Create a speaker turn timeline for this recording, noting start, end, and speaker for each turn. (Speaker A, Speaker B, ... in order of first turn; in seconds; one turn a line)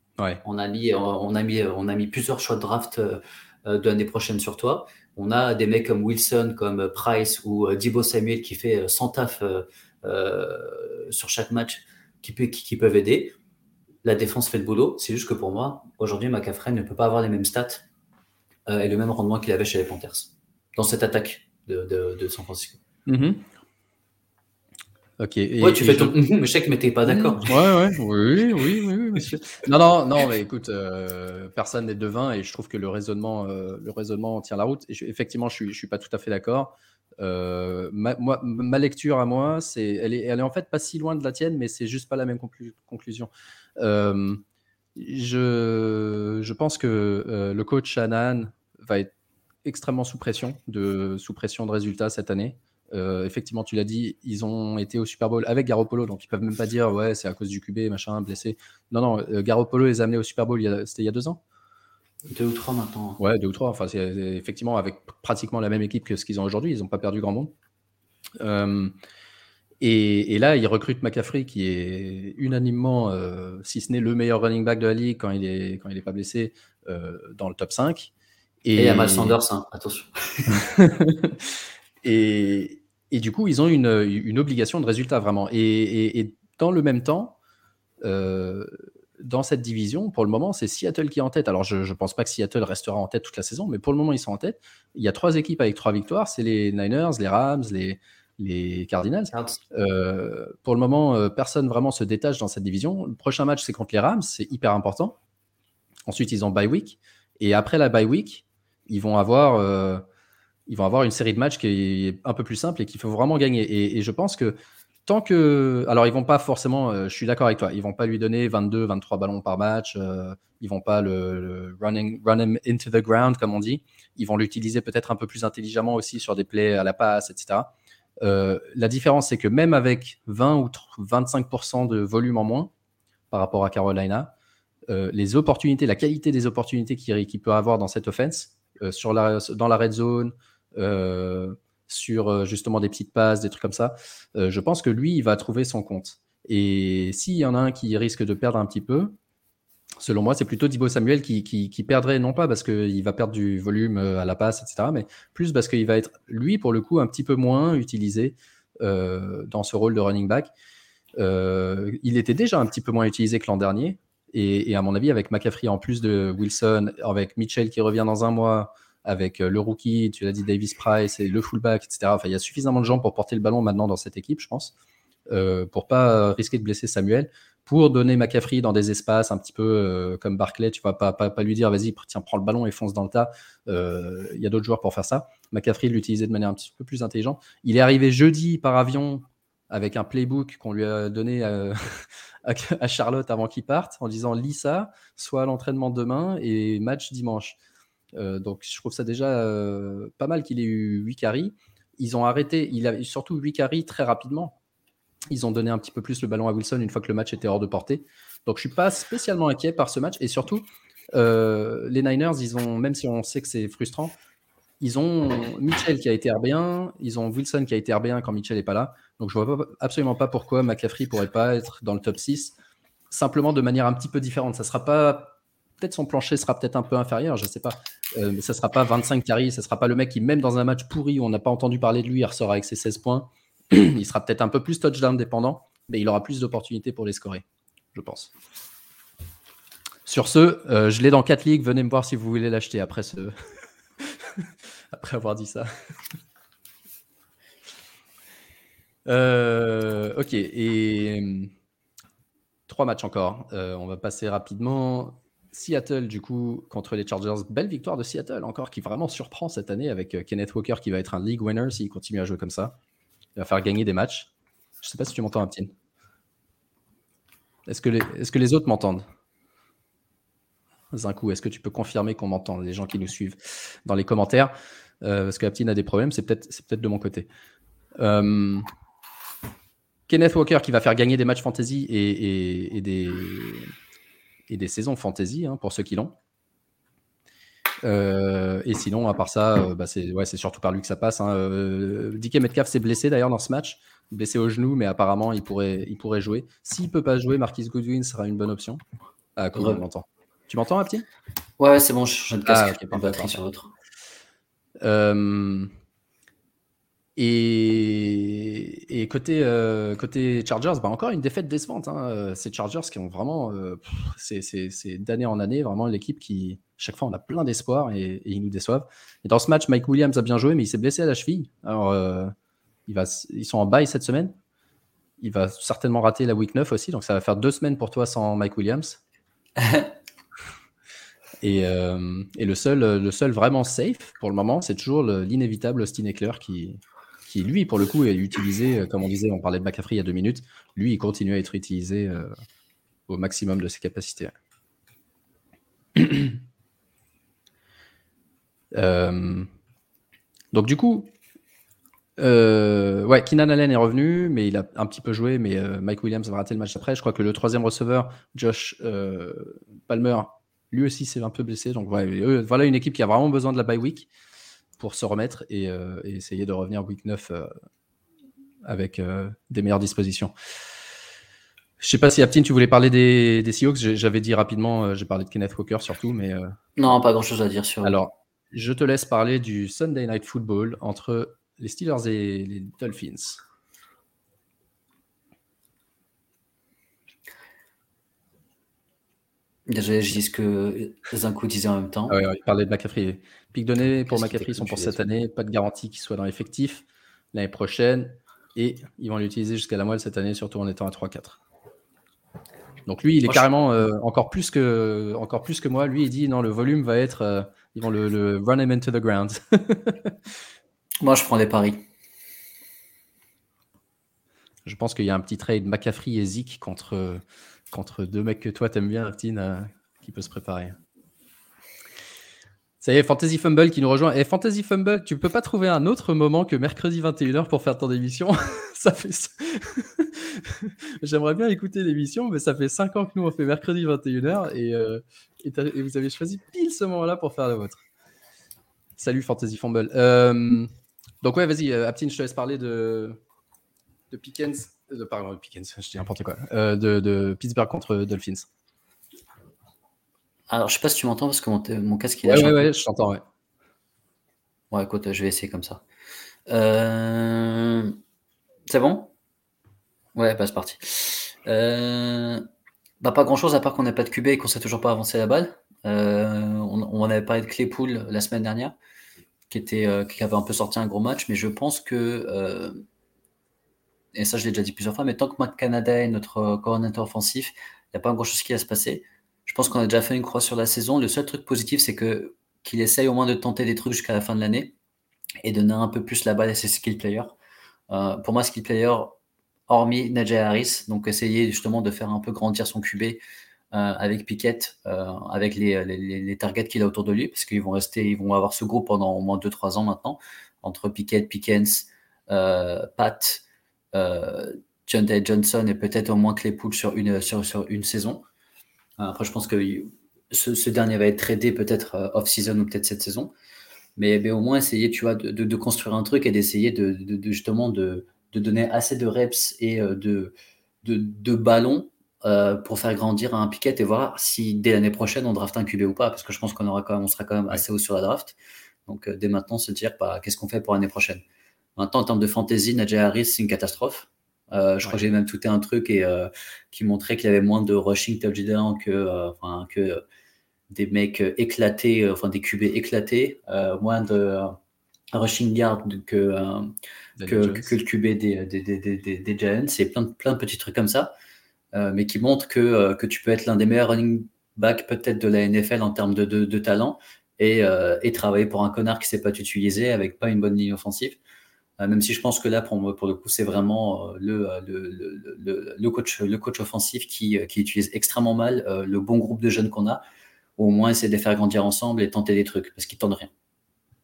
Speaker A: 0.4-13.3
Speaker A: 14.0-17.8
Speaker A: 18.7-22.8
Speaker B: 23.1-23.4
Speaker B: 25.2-26.1
Speaker A: 25.6-27.6
Speaker B: 27.1-44.4
Speaker B: 45.0-49.1
Speaker B: 49.6-61.4
Speaker A: 62.3-63.2
Speaker B: 63.2-67.5
Speaker B: 68.4-68.9
Speaker B: 69.8-78.1
Speaker B: 78.6-79.4
Speaker A: 78.8-80.6
Speaker B: 80.5-87.4
Speaker B: 88.0-105.2
Speaker A: 99.3-99.6
Speaker B: 106.1-110.0
Speaker B: 110.7-132.7
Speaker B: 133.3-134.3
Speaker B: 134.9-149.2
Speaker B: 150.0-160.5
Speaker B: 161.2-174.7
Speaker B: 175.3-197.6
Speaker B: 198.1-204.6
Speaker B: 205.3-214.1
Speaker B: 214.8-222.5
Speaker B: 223.1-238.3
Speaker B: 240.1-243.3
Speaker B: 244.0-245.7
Speaker B: 249.1-251.5
Speaker B: 252.7-262.8
Speaker B: 263.4-264.3
Speaker B: 264.8-265.7
Speaker B: 267.6-269.0
Speaker B: 270.9-277.3
Speaker B: 278.0-278.6
Speaker B: 280.1-283.7
Speaker B: 284.5-286.1
Speaker B: 287.8-298.8
Speaker B: 299.4-301.0
Speaker A: 299.5-299.8
Speaker A: 301.6-303.7
Speaker B: 302.5-303.4
Speaker B: 304.8-305.7
Speaker B: 307.1-322.3
Speaker B: 322.9-324.3
Speaker B: 325.2-329.0
Speaker A: 329.6-329.9
Speaker B: 331.4-342.3
Speaker B: 343.1-344.3
Speaker B: 345.9-346.4
Speaker B: 348.7-349.5
Speaker B: 350.5-351.1
Speaker B: 352.2-364.1
Speaker B: 364.8-367.5
Speaker B: 368.6-370.3
Speaker B: 371.8-376.9
Speaker A: 376.8-378.0
Speaker B: 377.8-383.4
Speaker A: 389.7-392.2
Speaker B: 392.1-401.4
Speaker A: 394.1-395.0
Speaker B: 402.9-410.2
Speaker A: 411.0-411.8
Speaker B: 414.6-420.8
Speaker B: 422.8-437.8
Speaker B: 439.0-440.7
Speaker B: 441.2-443.2
Speaker B: 444.1-448.5
Speaker A: 450.5-452.7
Speaker B: 452.2-453.2
Speaker A: 454.7-455.8
Speaker A: 456.5-458.0
Speaker A: 458.7-459.1
Speaker A: 460.1-462.4
Speaker A: 463.0-468.8
Speaker A: 469.5-472.8
Speaker A: 474.1-484.7
Speaker A: 485.4-487.4
Speaker A: 487.9-489.2
Speaker A: 489.7-493.2
Speaker A: 493.7-503.4
Speaker A: 503.9-508.2
Speaker A: 509.0-513.3
Speaker A: 514.0-531.2
Speaker A: 531.8-540.0
Speaker A: 540.7-544.5
Speaker A: 545.1-546.7
Speaker B: 547.2-547.7
Speaker A: 547.2-551.1
Speaker A: 551.7-561.2
Speaker A: 561.8-570.0
Speaker A: 570.6-573.3